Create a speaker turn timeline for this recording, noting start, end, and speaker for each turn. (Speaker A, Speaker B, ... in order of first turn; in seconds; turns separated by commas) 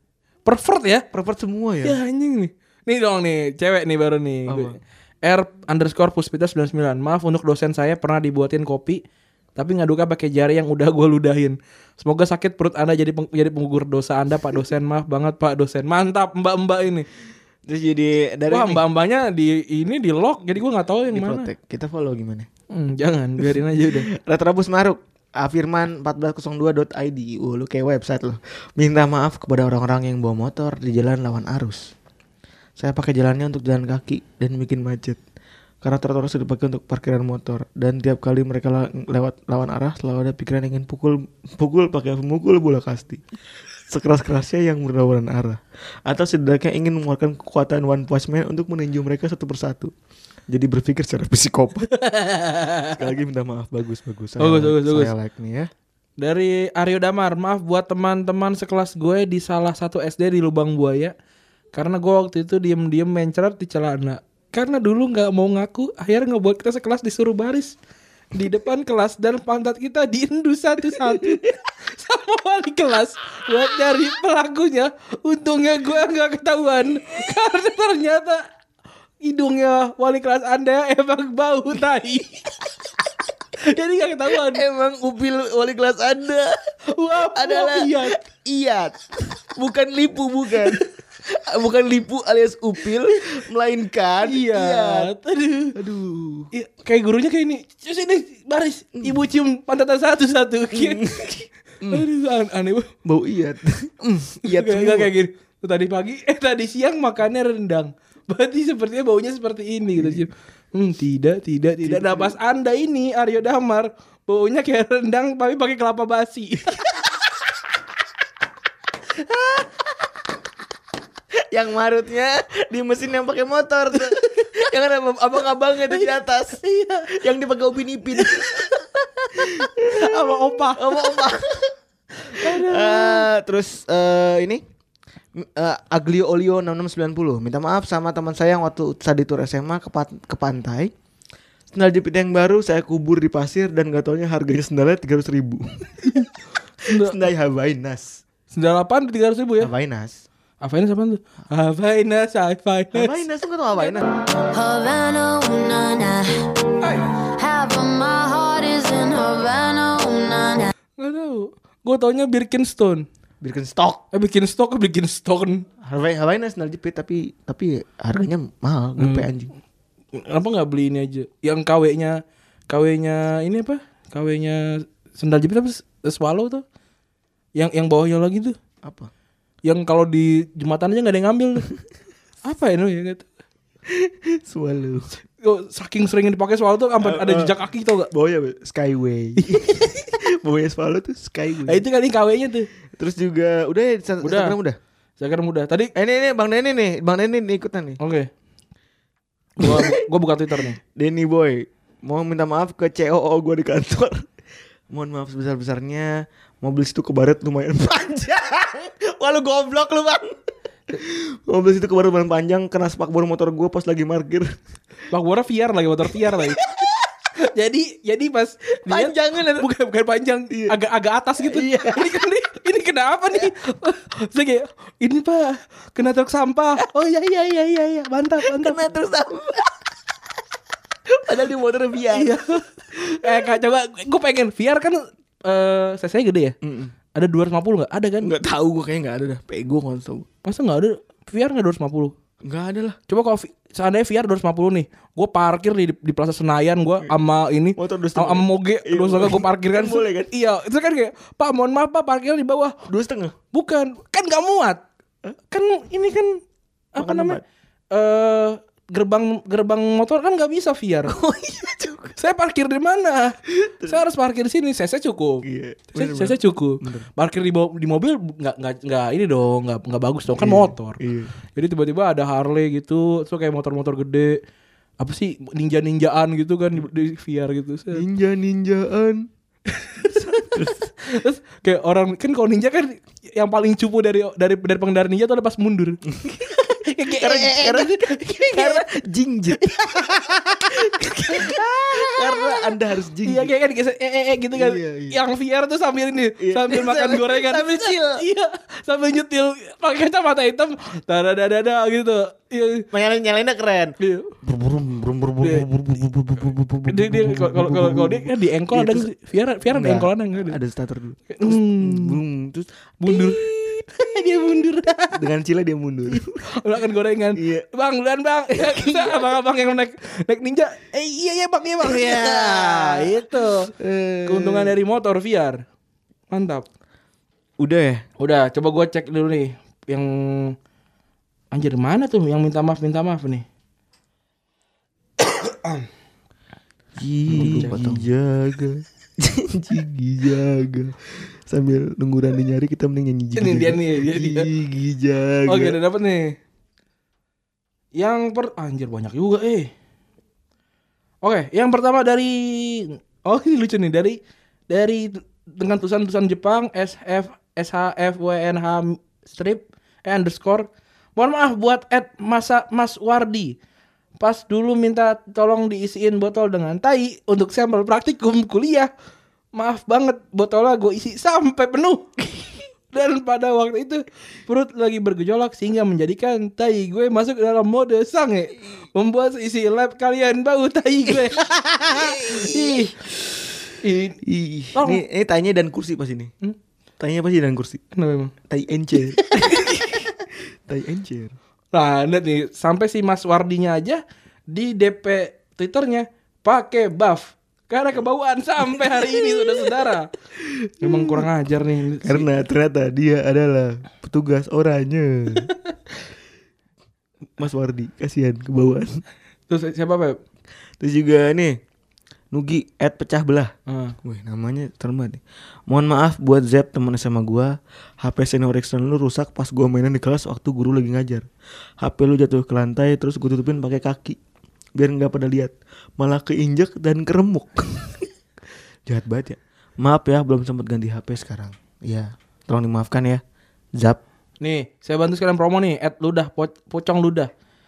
Speaker A: 0.5-1.1, Speaker B: 1.1-2.0, Speaker A: 1.8-9.0, Speaker B: 4.5-4.8, Speaker A: 9.6-17.1, Speaker B: 17.7-18.8, Speaker A: 18.5-21.5, Speaker B: 21.1-22.5, Speaker A: 22.7-24.1, Speaker B: 23.8-31.9, Speaker B: 32.8-35.2, Speaker B: 35.8-43.2, Speaker B: 43.9-49.9, Speaker B: 50.5-51.9, Speaker A: 51.9-53.0, Speaker B: 52.9-55.7, Speaker A: 54.4-55.1, Speaker A: 56.2-61.1, Speaker A: 61.7-67.8, Speaker A: 68.3-78.4, Speaker B: 71.0-71.5, Speaker A: 79.2-82.4, Speaker A: 83.6-84.6, Speaker B: 84.3-86.6, Speaker A: 86.9-88.2, Speaker B: 87.2-95.1, Speaker A: 94.2-95.8, Speaker B: 95.8-96.5, Speaker A: 96.5-101.1, Speaker B: 100.7-102.0, Speaker A: 101.9-102.9, Speaker B: 103.0-105.1, Speaker A: 104.5-116.8, Speaker B: 110.0-110.2, Speaker B: 111.8-112.4, Speaker B: 121.5-128.7, Speaker A: 126.6-127.2, Speaker A: 129.2-131.2, Speaker B: 129.3-131.7, Speaker A: 132.2-133.3, Speaker B: 132.3-134.6, Speaker B: 135.4-140.9, Speaker B: 141.7-146.2, Speaker B: 146.8-148.2, Speaker A: 146.8-147.2, Speaker A: 148.5-149.7, Speaker B: 149.6-150.2, Speaker A: 150.6-153.2, Speaker B: 152.9-154.1, Speaker C: 154.6-156.2, Speaker C: 157.5-160.0, Speaker A: 161.0-163.1, Speaker B: 163.4-164.0, Speaker A: 164.1-165.7, Speaker B: 165.8-169.5, Speaker A: 169.0-169.3, Speaker A: 170.1-176.6, Speaker A: 177.6-178.6, Speaker B: 178.8-179.1, Speaker A: 179.7-181.7, Speaker A: 182.4-183.3, Speaker B: 183.9-185.1, Speaker A: 185.4-188.1, Speaker B: 187.0-187.5, Speaker B: 188.1-191.8, Speaker A: 191.7-192.7, Speaker B: 193.0-194.8, Speaker A: 194.2-194.6, Speaker A: 195.2-195.9, Speaker B: 195.9-198.0, Speaker A: 198.0-198.3, Speaker A: 199.6-200.8, Speaker B: 199.6-200.0, Speaker B: 200.9-204.3, Speaker B: 204.9-210.4, Speaker B: 210.9-214.6, Speaker A: 215.1-216.7, Speaker B: 216.1-216.9, Speaker A: 217.4-228.8, Speaker B: 218.9-219.7, Speaker B: 220.5-220.8, Speaker B: 221.4-222.1, Speaker B: 228.4-229.8, Speaker B: 231.1-232.4, Speaker A: 232.1-236.6, Speaker B: 236.6-236.9, Speaker A: 237.1-238.3, Speaker B: 238.2-240.3, Speaker A: 240.4-242.1, Speaker B: 242.4-243.0, Speaker A: 243.1-252.8, Speaker B: 247.8-250.3, Speaker B: 252.9-253.3, Speaker A: 253.5-254.8, Speaker A: 255.5-256.4, Speaker A: 256.9-257.4, Speaker B: 257.0-257.4, Speaker A: 257.9-261.2, Speaker B: 261.1-262.2, Speaker A: 262.2-263.4, Speaker B: 263.6-264.0, Speaker A: 263.9-271.0, Speaker B: 265.4-267.1, Speaker B: 270.4-271.3, Speaker A: 271.6-274.4, Speaker A: 275.0-278.0, Speaker B: 277.9-279.3, Speaker A: 279.7-288.9, Speaker B: 280.0-280.9, Speaker B: 286.1-286.6, Speaker B: 287.1-293.5, Speaker A: 289.6-292.6, Speaker A: 293.2-302.9, Speaker B: 294.6-295.2, Speaker B: 296.4-298.2, Speaker B: 302.9-309.1, Speaker A: 304.0-304.4, Speaker A: 305.4-305.7, Speaker A: 306.9-310.6, Speaker B: 309.7-313.9, Speaker A: 311.3-312.2, Speaker A: 313.0-315.2, Speaker B: 315.1-316.4, Speaker A: 316.1-323.7, Speaker B: 317.4-317.7, Speaker B: 318.6-319.3, Speaker B: 321.8-324.8, Speaker A: 324.3-325.6, Speaker A: 326.3-326.7, Speaker B: 327.6-328.1, Speaker A: 328.2-330.6, Speaker A: 331.5-333.4, Speaker A: 335.3-335.8, Speaker B: 337.0-345.8, Speaker A: 337.3-338.1, Speaker A: 343.4-344.5, Speaker A: 345.5-346.4, Speaker A: 348.0-349.7, Speaker A: 351.2-354.2, Speaker A: 354.7-363.6, Speaker A: 364.2-368.9, Speaker A: 369.5-372.1, Speaker A: 372.9-383.0, Speaker B: 381.9-382.9, Speaker A: 383.8-384.2, Speaker B: 384.2-386.3, Speaker A: 384.7-385.0, Speaker B: 387.0-387.8, Speaker A: 387.9-388.3, Speaker B: 388.5-391.4, Speaker A: 391.7-400.1, Speaker B: 398.7-399.7, Speaker B: 400.4-401.3, Speaker A: 400.8-402.3, Speaker B: 402.0-405.5, Speaker B: 407.4-409.0, Speaker A: 409.5-410.2, Speaker B: 410.8-411.6, Speaker B: 412.3-413.5, Speaker A: 413.7-414.0, Speaker B: 414.0-421.3, Speaker B: 421.8-424.2, Speaker B: 424.8-428.1, Speaker B: 428.9-433.2, Speaker A: 434.4-437.3